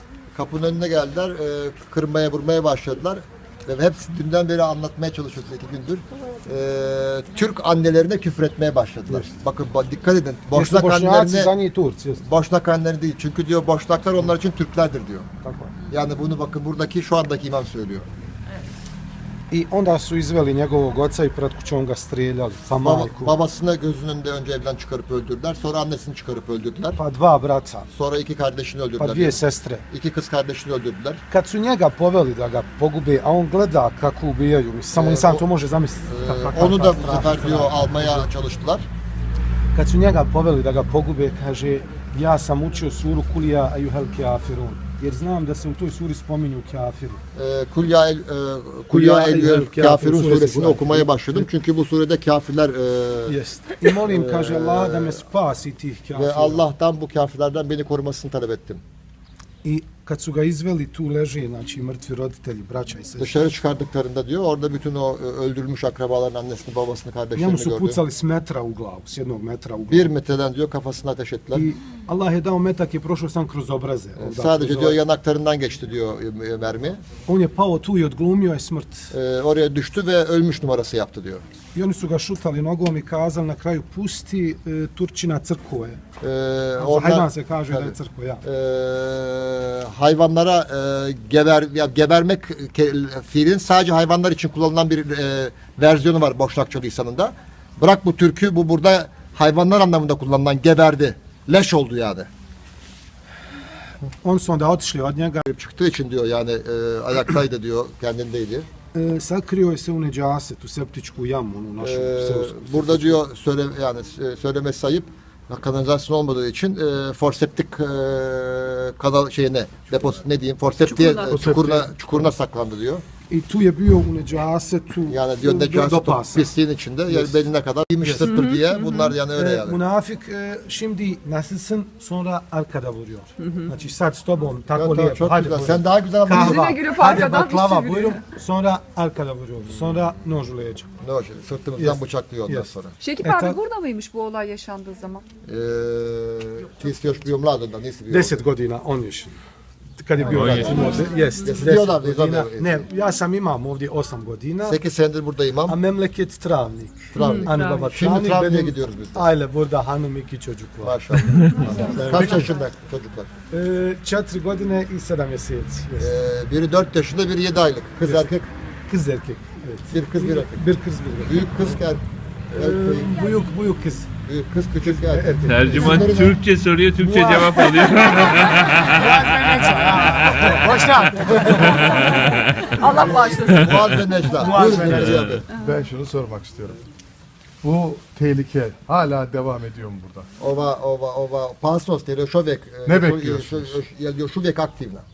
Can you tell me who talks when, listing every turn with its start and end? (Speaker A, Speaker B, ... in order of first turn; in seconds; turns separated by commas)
Speaker A: 0.3-11.5, Speaker B: 10.5-12.2, Speaker A: 12.2-15.2, Speaker B: 15.4-15.7, Speaker A: 15.9-18.1, Speaker B: 19.5-23.3, Speaker A: 22.8-27.0, Speaker B: 27.0-27.9, Speaker A: 27.9-29.4, Speaker B: 29.0-29.8, Speaker A: 29.9-31.2, Speaker B: 31.3-38.3, Speaker A: 34.9-35.4, Speaker A: 36.1-38.9, Speaker B: 39.7-47.2, Speaker A: 47.4-53.4, Speaker B: 48.9-51.5, Speaker B: 53.3-56.6, Speaker A: 53.9-55.2, Speaker A: 56.1-58.8, Speaker B: 59.6-63.5, Speaker A: 63.2-68.0, Speaker B: 67.3-70.1, Speaker A: 69.9-71.7, Speaker B: 71.5-75.0, Speaker A: 74.2-77.0, Speaker B: 77.3-79.1, Speaker A: 79.1-81.4, Speaker B: 81.7-86.0, Speaker A: 86.2-102.3, Speaker B: 86.8-88.4, Speaker B: 104.2-105.5, Speaker A: 105.5-108.7, Speaker B: 108.9-113.2, Speaker A: 111.8-123.0, Speaker C: 120.9-121.4, Speaker D: 121.2-121.9, Speaker B: 123.3-126.5, Speaker A: 125.1-129.8, Speaker B: 127.1-128.4, Speaker C: 128.2-129.0, Speaker B: 129.3-140.9, Speaker A: 134.8-136.8, Speaker C: 136.4-138.2, Speaker A: 141.0-142.9, Speaker B: 141.8-143.6, Speaker C: 143.0-145.2, Speaker A: 145.5-148.4, Speaker B: 148.1-149.4, Speaker B: 150.0-154.8, Speaker A: 150.2-152.8, Speaker E: 150.2-150.9, Speaker A: 154.6-155.8, Speaker B: 155.7-162.5, Speaker A: 157.1-159.2, Speaker C: 157.4-157.8, Speaker A: 160.8-163.3, Speaker B: 163.5-166.1, Speaker A: 166.0-168.5, Speaker B: 168.9-171.7, Speaker A: 169.9-170.6, Speaker A: 171.2-172.0, Speaker B: 172.5-174.1, Speaker A: 172.6-173.2, Speaker A: 174.2-176.4, Speaker B: 174.9-176.2, Speaker E: 175.4-179.1, Speaker B: 177.0-183.4, Speaker E: 180.2-180.6, Speaker E: 181.6-184.0, Speaker C: 182.8-183.6, Speaker A: 182.8-185.4, Speaker B: 184.3-185.2, Speaker D: 184.6-186.8, Speaker D: 187.6-190.3, Speaker A: 190.4-195.0, Speaker D: 192.8-193.8